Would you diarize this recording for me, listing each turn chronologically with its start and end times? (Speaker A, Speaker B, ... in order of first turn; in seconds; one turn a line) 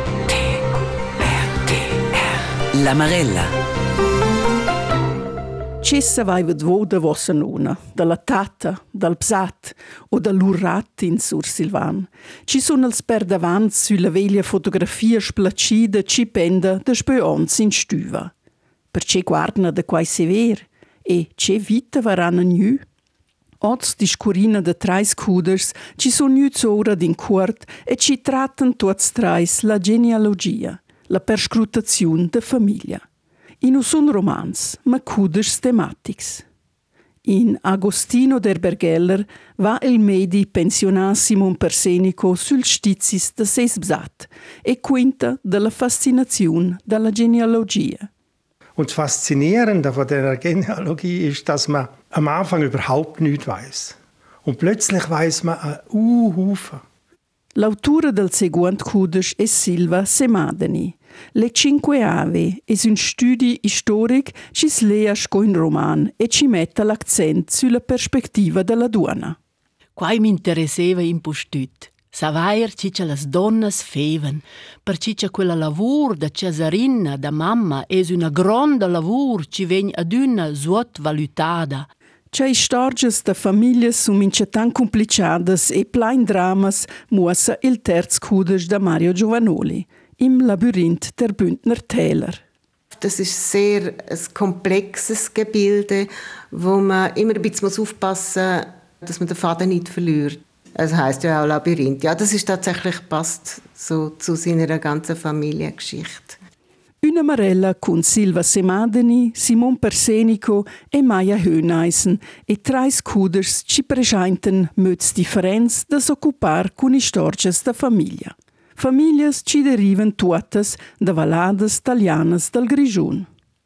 Speaker A: 0.3-0.6
Speaker A: 1.2-3.6
Speaker B: 5.8-18.3
Speaker B: 18.9-22.9
Speaker B: 23.6-33.0
Speaker B: 33.6-36.5
Speaker B: 37.2-48.1
Speaker C: 48.8-56.8
Speaker B: 57.5-69.4
Speaker D: 70.0-81.9
Speaker B: 82.3-92.4
Speaker E: 92.9-106.4
Speaker B: 107.0-123.3